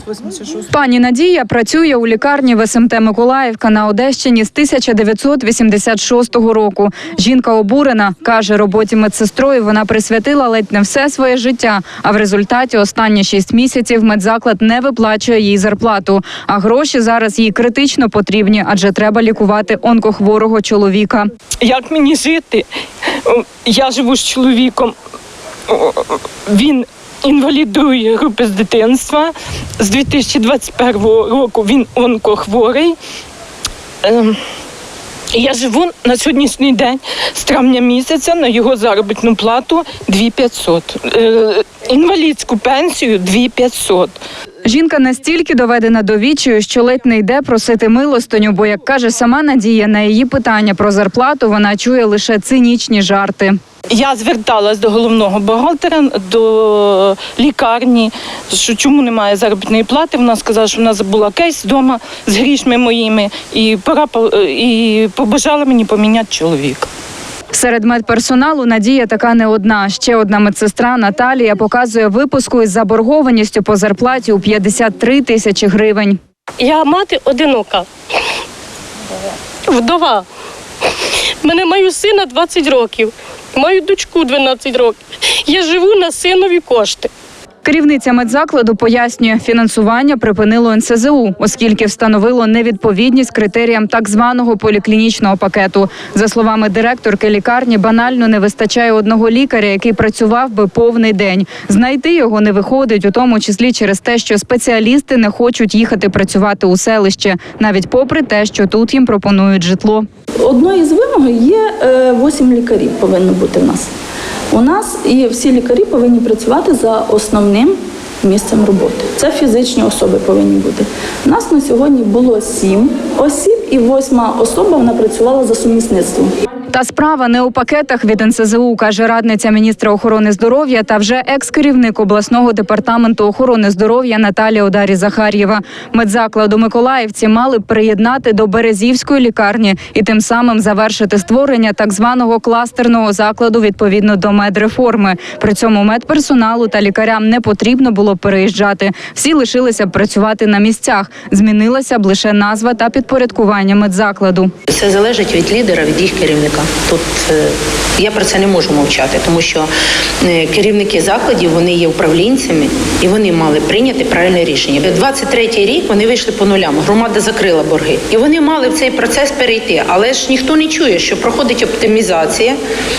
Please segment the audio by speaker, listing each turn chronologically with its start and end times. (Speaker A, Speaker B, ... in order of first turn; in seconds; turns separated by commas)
Speaker A: 0.6-21.3, Speaker B: 21.6-22.6, Speaker B: 23.2-24.9, Speaker B: 25.7-32.9, Speaker B: 34.0-34.4, Speaker B: 35.3-44.1, Speaker A: 44.6-53.6, Speaker B: 54.0-66.9, Speaker A: 67.5-76.2, Speaker C: 76.6-77.9, Speaker C: 79.7-80.2, Speaker C: 81.4-87.1, Speaker A: 87.6-110.0, Speaker D: 110.5-113.9, Speaker D: 114.6-117.7, Speaker D: 118.2-126.2, Speaker A: 126.7-154.5, Speaker E: 154.7-159.7, Speaker E: 160.2-172.6